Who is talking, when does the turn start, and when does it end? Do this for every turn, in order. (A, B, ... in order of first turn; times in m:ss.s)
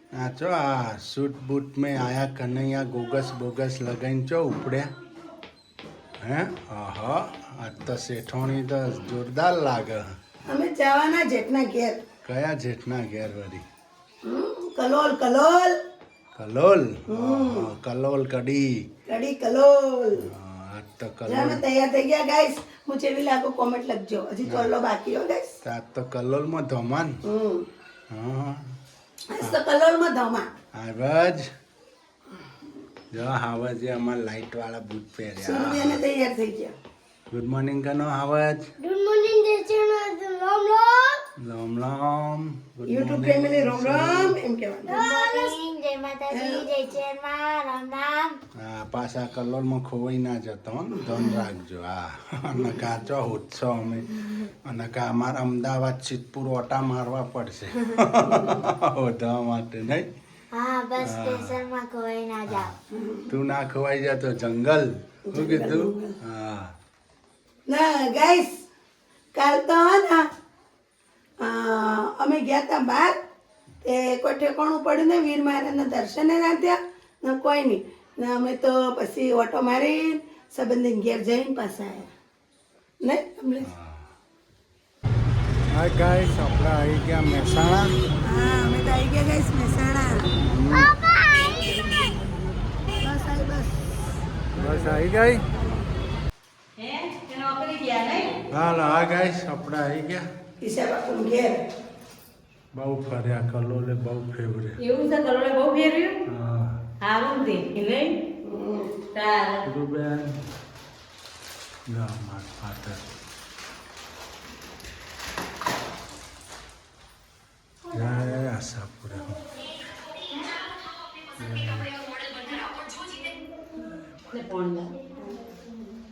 0:00.2-0:04.9 A
0:06.2-0:10.0 A
0:10.5-0:12.0 B
0:12.2-0:13.6 A
0:14.2-0:15.8 B
0:16.4-0:18.8 A
0:17.1-0:17.7 B
0:19.1-0:20.2 B
0:20.2-0:21.6 A
0:21.2-0:25.5 B
0:25.6-0:27.2 A
0:27.2-0:27.7 B
0:28.1-0:28.6 A
0:29.3-0:30.5 B
0:30.7-0:31.5 A
0:33.1-0:36.0 A
0:35.4-0:36.7 B
0:37.3-0:38.7 A
0:38.8-0:41.2 C
0:41.4-0:44.4 A
0:42.9-0:45.1 B
0:44.9-0:48.4 C
0:46.3-0:46.7 B
0:48.6-1:00.1 A
0:51.2-0:51.4 B
0:58.2-0:58.7 B
1:00.5-1:02.7 C
1:01.0-1:01.6 A
1:02.9-1:03.3 B
1:03.3-1:06.7 A
1:05.3-1:06.2 B
1:07.7-1:08.5 B
1:09.3-1:10.3 B
1:11.4-1:13.2 B
1:13.8-1:22.1 B
1:23.0-1:23.7 B
1:23.6-1:24.0 A
1:25.7-1:28.0 A
1:28.2-1:30.4 B
1:30.4-1:31.0 A
1:32.9-1:33.9 B
1:34.5-1:35.5 A
1:36.8-1:38.4 D
1:38.5-1:40.2 A
1:40.6-1:41.6 B
1:42.7-1:44.8 A
1:44.8-1:46.2 D
1:46.2-1:46.8 A
1:47.0-1:48.1 D
1:48.4-1:49.0 B
1:49.1-1:49.6 D
1:49.6-1:50.4 A
1:51.9-1:53.0 A
1:57.9-1:59.3 A
2:01.4-2:02.1 A
2:04.3-2:04.9 D